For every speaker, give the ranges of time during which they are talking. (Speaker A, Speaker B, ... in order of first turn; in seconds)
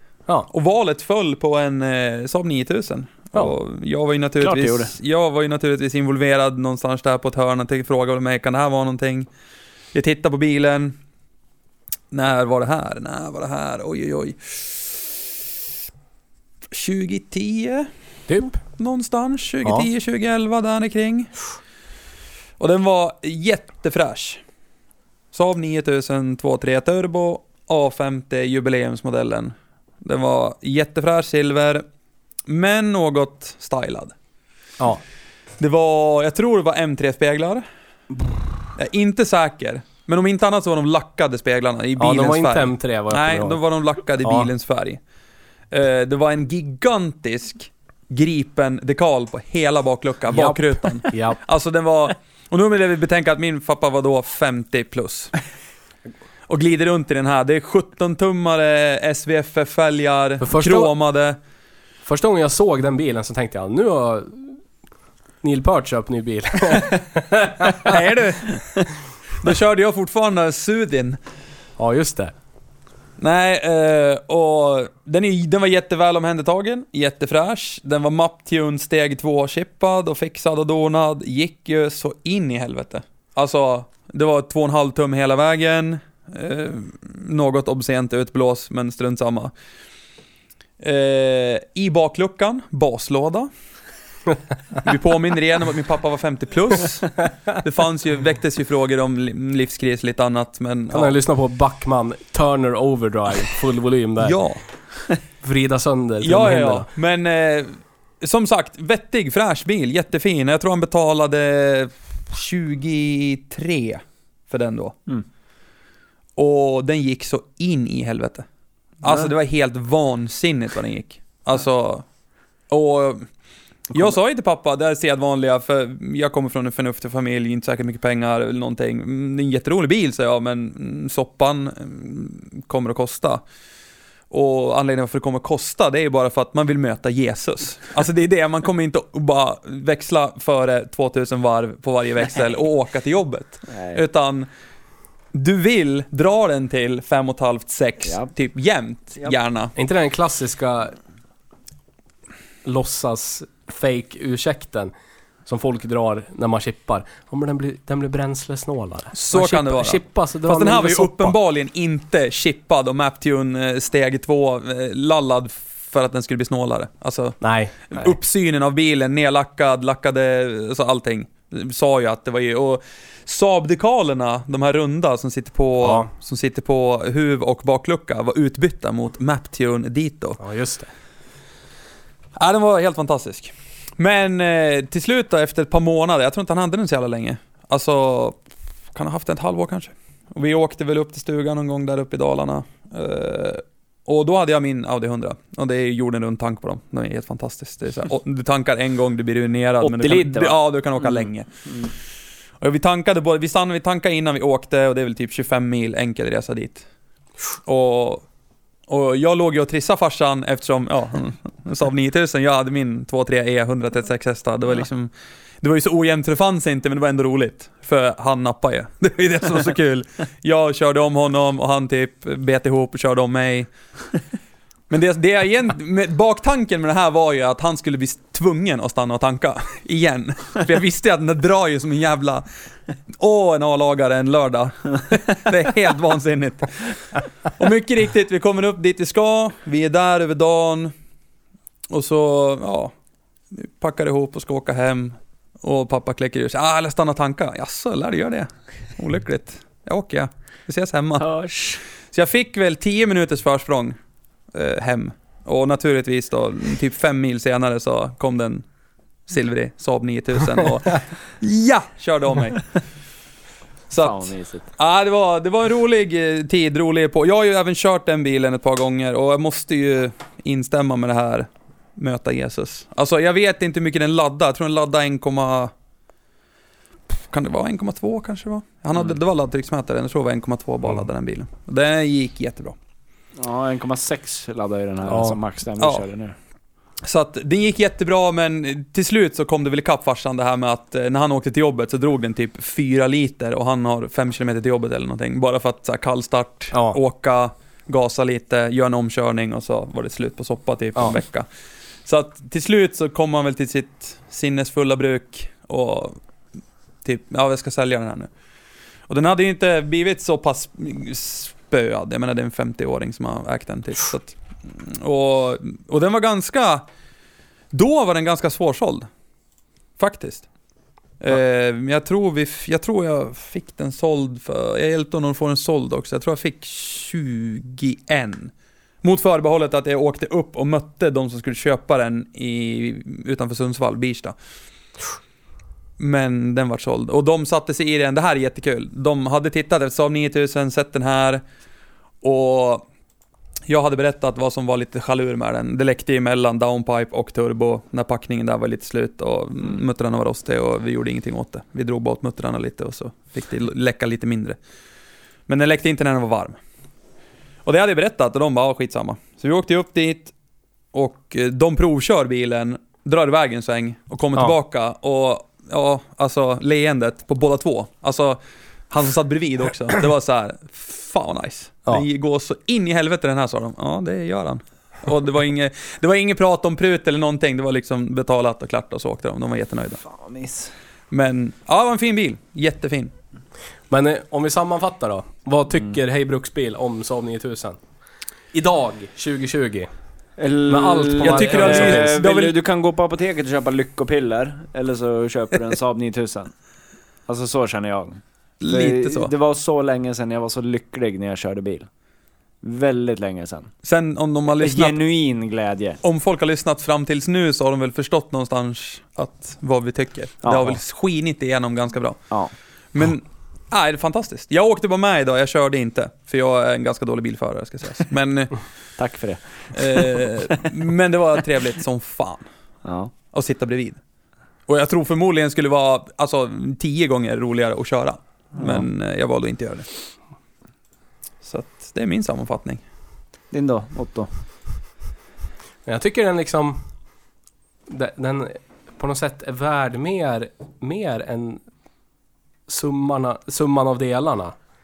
Speaker A: 0.5-9.3, 9.9-11.0, 12.1-15.1, 16.7-17.9, 18.6-21.3, 22.6-24.4, 25.3-31.9, 32.5-34.1, 35.6-37.6, 38.8-45.0, 45.7-55.3, 56.5-61.4, 67.8-68.9, 69.4-71.2, 73.2-89.5, 90.8-93.5, 94.8-101.2, 104.2-104.6, 106.2-115.0, 116.4-118.5, 119.0-122.0, 122.7-123.2, 123.9-133.4, 134.3-144.5, 145.3-149.7, 159.1-167.4, 167.9-180.4, 182.4-188.4, 188.9-201.5, 202.6-206.9, 207.7-208.2, 208.9-223.7, 224.9-232.4, 233.2-240.9, 241.9-242.9, 243.5-251.3, 252.1-254.0, 254.5-258.6, 259.3-262.7, 263.9-275.7, 277.3-282.8, 285.8-286.1, 287.0-301.5, 302.1-306.2, 307.0-308.3, 309.1-316.9, 317.7-319.1, 320.0-320.5, 321.2-334.4, 336.0-341.4, 342.2-342.9, 343.7-354.6, 355.5-356.6, 357.6-360.3, 360.9-368.4, 368.9-380.0, 381.1-383.1, 391.2-392.6, 398.6-399.3, 403.8-405.0, 406.0-412.2, 412.9-418.5, 419.7-422.5, 423.3-424.0, 424.7-429.9, 431.4-432.8
Speaker B: 4.4-4.9, 143.7-144.0, 148.0-148.3, 199.8-201.2, 251.2-251.8, 264.0-264.7, 283.4-286.4, 380.0-380.7, 390.4-396.5, 397.3-401.9, 402.6-403.7, 404.6-406.0, 410.4-410.8, 419.0-420.3, 422.9-423.1, 428.6-428.9, 433.5-434.3
Speaker C: 18.3-18.6, 42.0-43.6, 44.2-44.5, 50.3-51.4, 60.4-60.9, 62.0-64.5, 65.4-68.0, 71.8-72.3, 100.9-104.4, 105.4-106.9, 149.8-151.0, 152.7-154.9, 155.5-161.4, 167.4-167.9, 175.8-176.1, 180.4-180.9, 285.1-285.4, 296.7-297.0, 383.9-387.8, 388.5-389.9, 390.7-392.2, 435.9-436.8, 437.9-441.6, 442.7-444.6